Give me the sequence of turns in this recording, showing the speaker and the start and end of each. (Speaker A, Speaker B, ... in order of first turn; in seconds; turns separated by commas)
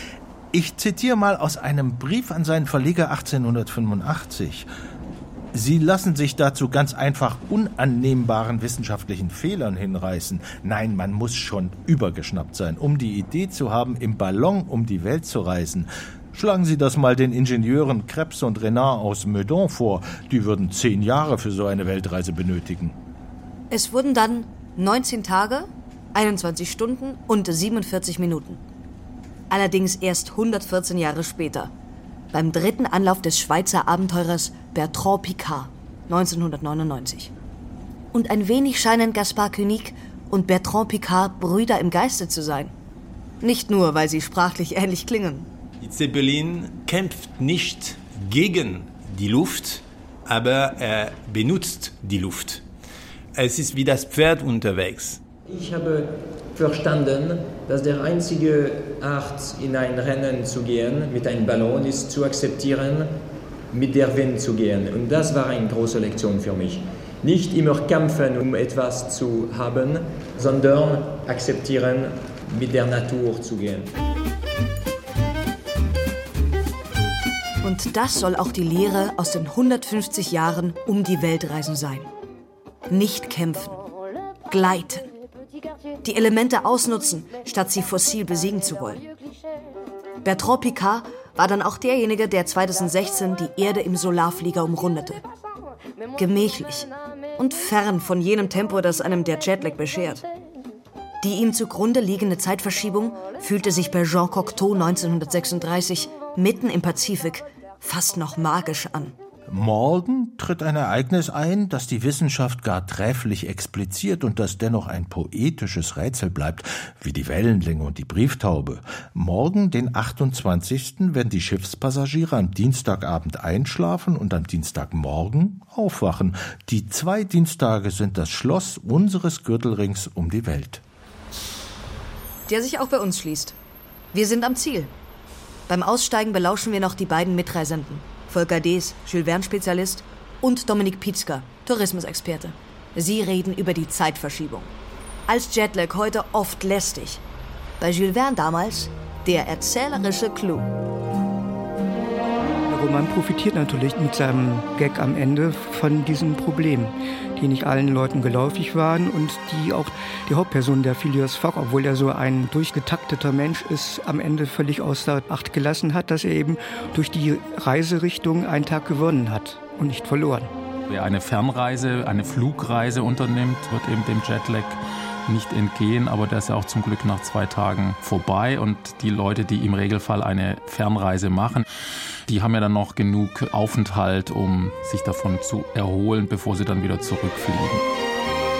Speaker A: 0.5-4.7, Speaker A: 5.5-23.0, Speaker B: 23.7-28.6, Speaker B: 29.5-31.7, Speaker B: 32.3-37.3, Speaker B: 38.1-42.7, Speaker B: 43.4-45.5, Speaker C: 45.8-52.6, Speaker C: 53.3-55.2, Speaker D: 55.5-63.1, Speaker D: 63.7-73.9, Speaker B: 77.6-82.1, Speaker B: 82.9-83.8, Speaker B: 84.5-85.1, Speaker B: 86.0-89.0, Speaker B: 90.2-95.2, Speaker B: 96.2-100.2, Speaker B: 101.2-109.1, Speaker A: 109.5-130.8, Speaker B: 132.5-133.6, Speaker B: 134.1-134.9, Speaker B: 135.7-144.7, Speaker B: 145.3-147.2, Speaker B: 147.8-150.7, Speaker E: 152.7-170.5, Speaker F: 170.9-181.7, Speaker F: 182.3-187.8